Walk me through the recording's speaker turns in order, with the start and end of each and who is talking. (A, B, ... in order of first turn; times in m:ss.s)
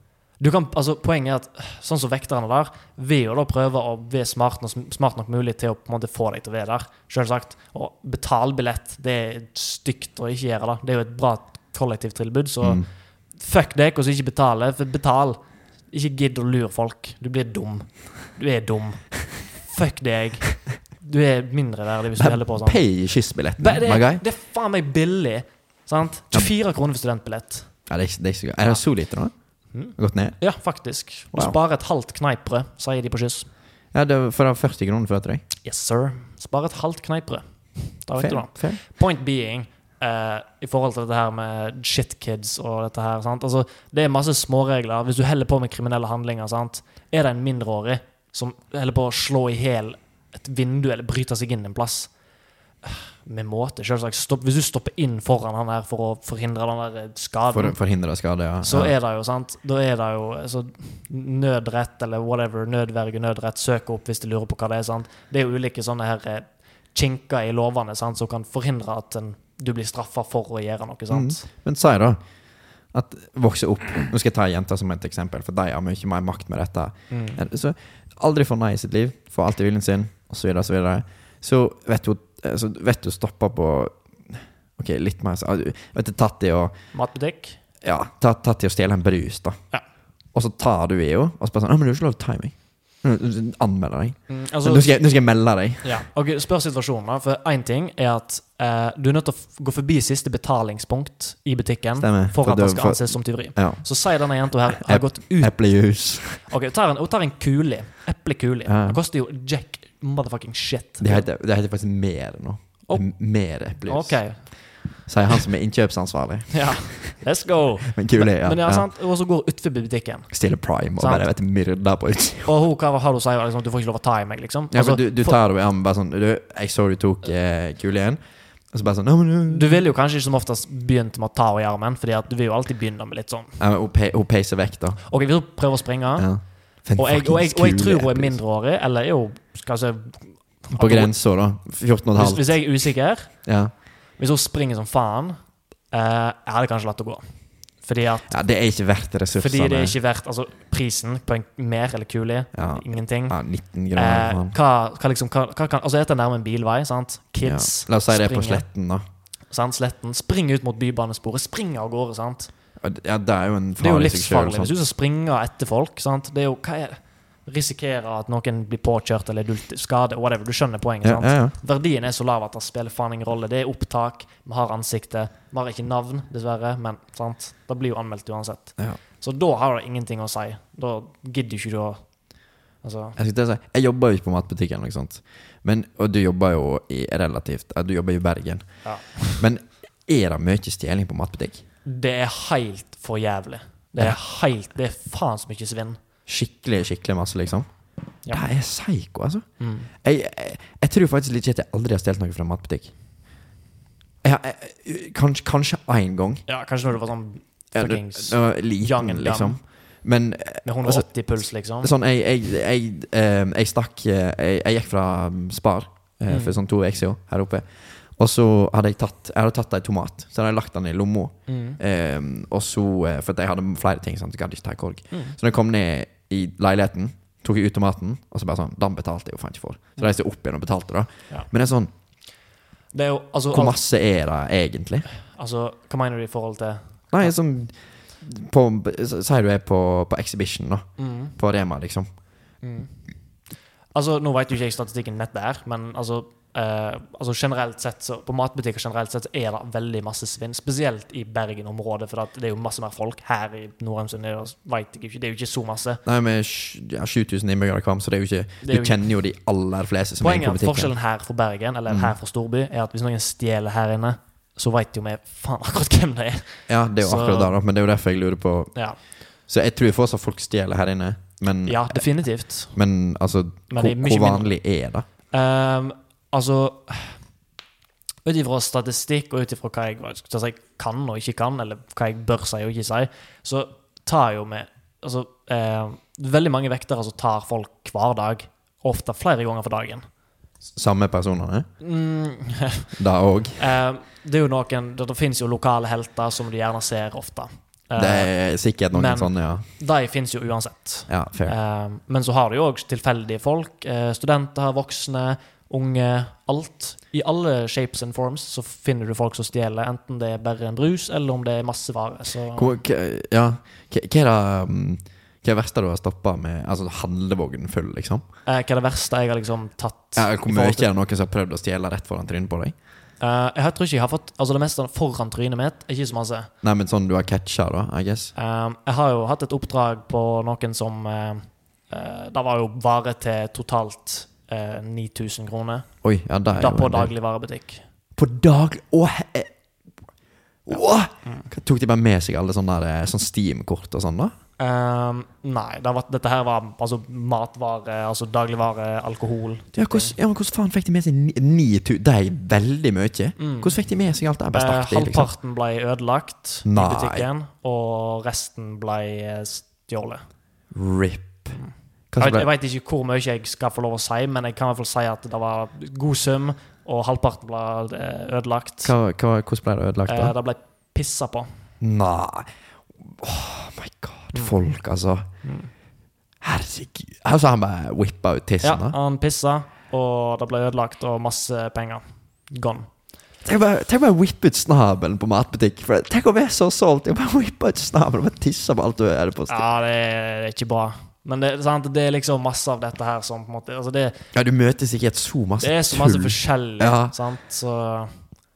0:00.4-0:12.8 A
0:12.6-0:12.9 B
0:13.4-0:23.1 A
0:22.2-0:24.2 B
0:23.6-0:27.8 A
0:27.9-0:29.3 B
0:29.7-0:33.5 A
0:29.9-0:30.4 B
0:33.9-0:35.4 B
0:35.6-0:52.1 A
0:38.2-0:38.8 B
0:52.8-0:57.8 A
0:57.5-0:58.9 B
0:58.6-1:11.4 A
1:11.1-1:12.2 B
1:12.9-1:26.8 B
1:17.1-1:17.4 A
1:26.9-1:27.6 A
1:27.8-1:29.6 B
1:30.3-1:36.0 B
1:34.3-1:35.0 A
1:35.8-1:51.2 A
1:42.0-1:46.4 B
1:48.6-1:49.0 B
1:51.0-1:57.2 B
1:53.8-1:55.1 A
1:56.5-2:01.3 A
1:57.9-1:58.9 B
2:00.3-2:02.5 B
2:02.4-2:05.4 A
2:04.7-2:09.8 B
2:09.5-2:13.6 A
2:13.6-2:15.0 B
2:15.0-2:21.1 A
2:16.2-2:18.4 B
2:20.7-2:22.7 B
2:22.1-2:25.4 A
2:23.4-2:23.7 B
2:25.9-2:27.2 A
2:27.8-2:28.4 A
2:28.3-2:30.0 B
2:29.3-2:38.7 A
2:32.5-2:34.5 B
2:37.4-2:39.0 B
2:39.5-2:42.5 A
2:42.8-2:44.7 B
2:43.8-3:02.0 A
2:51.0-2:51.5 B
3:02.8-3:03.2 A
3:03.2-3:11.6 B
3:08.8-3:09.4 A
3:11.8-3:16.0 A
3:16.3-3:17.7 B
3:18.3-3:19.4 B
3:19.6-3:19.9 A
3:20.0-3:22.9 B
3:24.2-3:26.4 B
3:26.5-3:29.6 A
3:27.7-3:31.1 B
3:30.6-3:31.9 A
3:31.8-3:51.9 B
3:36.3-3:36.6 A
3:41.5-3:41.8 A
3:45.1-3:45.4 A
3:52.9-3:53.8 A
3:53.5-3:55.1 B
3:55.3-3:57.3 A
3:57.1-4:02.1 B
4:01.0-4:01.4 A
4:02.6-4:02.9 A
4:03.9-4:16.0 A
4:16.0-4:20.9 B
4:18.6-4:19.1 A
4:20.2-4:27.5 A
4:21.9-4:22.1 B
4:26.7-4:35.0 B
4:28.7-4:29.0 A
4:31.7-4:32.8 A
4:33.7-4:34.5 A
4:35.3-4:37.2 A
4:38.2-4:50.0 A
4:50.8-4:51.7 B
4:51.8-4:52.9 A
4:53.0-4:53.6 B
4:53.6-5:12.8 A
4:58.0-4:59.7 B
5:01.1-5:01.5 B
5:12.5-5:18.2 B
5:18.4-5:20.9 A
5:20.1-5:22.7 B
5:23.2-5:26.5 A
5:26.6-5:28.3 B
5:28.4-5:36.0 A
5:36.0-5:37.1 B
5:36.5-5:37.8 A
5:38.2-5:39.5 B
5:40.6-5:44.3 B
5:40.7-5:41.5 A
5:44.6-5:50.2 A
5:49.7-5:55.3 B
5:53.4-5:53.9 A
5:54.5-6:00.2 A
5:56.6-5:57.3 B
6:00.7-6:01.6 B
6:01.5-6:08.9 A
6:02.1-6:02.5 B
6:08.8-6:10.3 B
6:10.1-6:11.5 A
6:11.8-6:12.5 B
6:13.0-6:15.3 B
6:15.4-6:15.7 A
6:16.4-6:19.0 B
6:18.6-6:22.9 A
6:23.4-6:29.6 B
6:29.5-6:34.2 A
6:34.3-6:37.1 B
6:35.6-6:38.2 A